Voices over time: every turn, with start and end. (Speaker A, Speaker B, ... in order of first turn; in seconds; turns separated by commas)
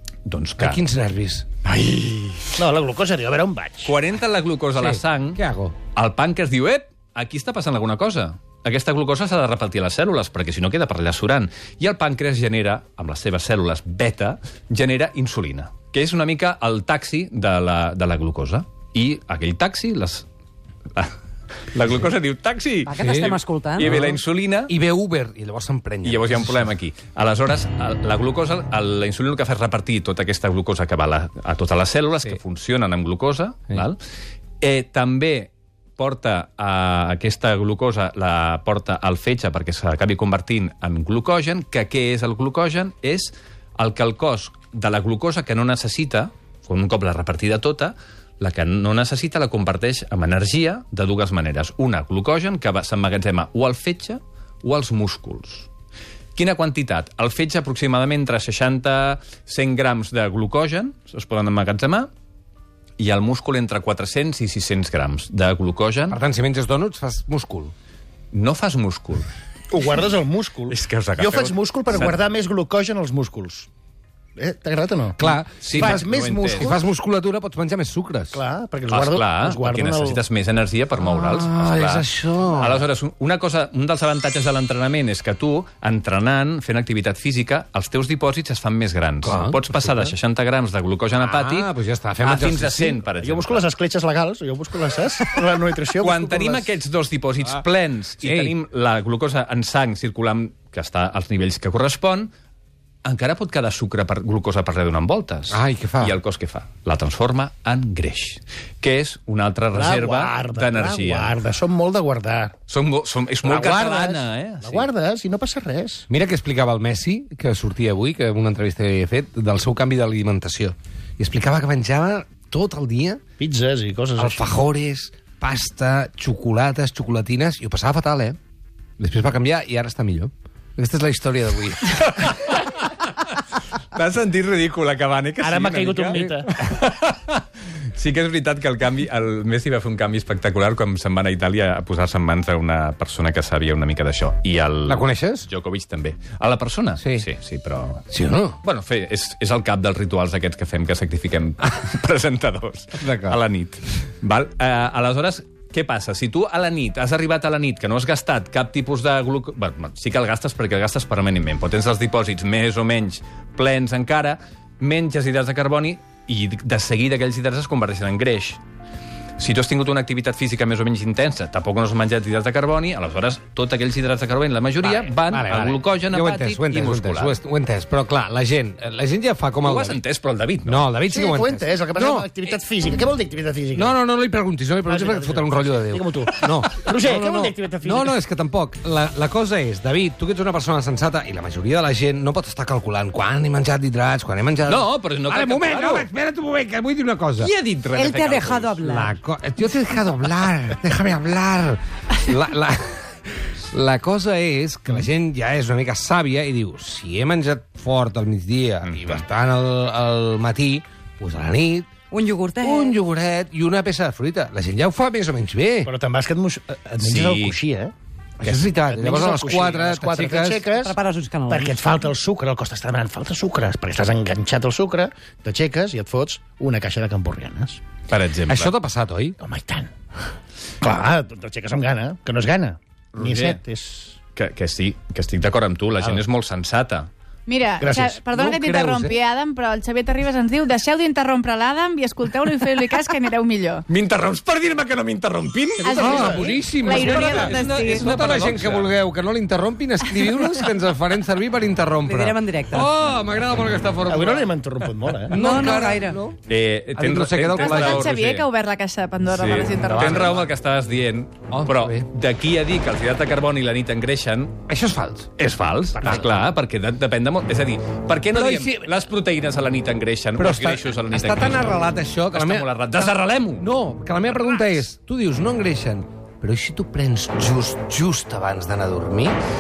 Speaker A: 0.3-0.8, Speaker B: 0.6-1.5, Speaker A: 1.6-2.6, Speaker C: 2.6-3.9, Speaker A: 3.9-5.4, Speaker B: 4.8-5.8, Speaker A: 5.9-20.3, Speaker A: 21.7-24.7, Speaker D: 22.9-23.9, Speaker B: 22.9-26.7, Speaker A: 26.0-34.0, Speaker A: 34.6-55.7, Speaker A: 56.4-62.1, Speaker A: 63.0-66.2, Speaker B: 66.1-67.7, Speaker A: 68.3-69.3, Speaker C: 69.7-73.7, Speaker A: 70.7-72.2, Speaker C: 74.4-76.8, Speaker B: 75.2-78.4, Speaker A: 75.2-76.8, Speaker C: 78.3-80.2, Speaker A: 78.9-93.7, Speaker B: 81.0-82.8, Speaker B: 89.2-90.1, Speaker B: 91.2-93.0, Speaker C: 93.2-96.7, Speaker A: 96.0-102.3, Speaker B: 98.2-98.5, Speaker A: 103.0-111.4, Speaker B: 105.5-106.2, Speaker C: 109.7-112.5, Speaker A: 112.7-114.9, Speaker C: 113.4-116.1, Speaker B: 116.1-123.2, Speaker C: 123.4-124.5, Speaker B: 124.2-128.4, Speaker B: 129.0-132.0, Speaker A: 131.8-133.4, Speaker A: 133.9-148.0, Speaker C: 135.4-136.5, Speaker B: 136.1-136.4, Speaker B: 144.9-145.5, Speaker B: 147.0-147.3, Speaker B: 148.1-148.6, Speaker A: 148.6-168.6, Speaker B: 153.0-153.4, Speaker A: 169.4-177.4, Speaker B: 175.2-180.0, Speaker A: 179.6-180.9, Speaker B: 180.7-182.3, Speaker C: 181.1-183.9, Speaker B: 183.8-197.5, Speaker C: 184.8-188.2, Speaker A: 194.7-196.1, Speaker A: 197.4-198.9, Speaker D: 197.9-199.1, Speaker B: 198.8-211.9, Speaker A: 208.8-209.2, Speaker D: 212.1-213.0, Speaker B: 212.6-215.9, Speaker C: 215.8-220.9, Speaker A: 217.0-217.6, Speaker B: 218.4-220.7, Speaker D: 220.8-221.8, Speaker C: 221.5-227.8, Speaker A: 228.1-228.7, Speaker B: 228.5-229.4, Speaker C: 229.4-229.9, Speaker C: 230.8-234.2, Speaker A: 233.2-233.6, Speaker A: 234.3-237.1, Speaker E: 237.5-243.8, Speaker C: 237.8-238.2, Speaker B: 238.3-239.2, Speaker A: 243.9-246.3, Speaker E: 245.8-248.1, Speaker B: 246.0-254.5, Speaker C: 246.1-246.6, Speaker A: 246.9-248.9, Speaker D: 252.0-252.9, Speaker C: 254.1-255.4, Speaker B: 255.3-256.4, Speaker D: 255.3-256.2, Speaker A: 256.3-258.5, Speaker B: 257.0-258.1, Speaker E: 257.6-260.3, Speaker A: 259.3-264.6, Speaker B: 259.7-260.5, Speaker B: 261.5-262.1, Speaker B: 264.7-265.3, Speaker A: 265.4-273.7, Speaker C: 265.9-266.5, Speaker B: 268.3-269.0, Speaker B: 270.4-279.4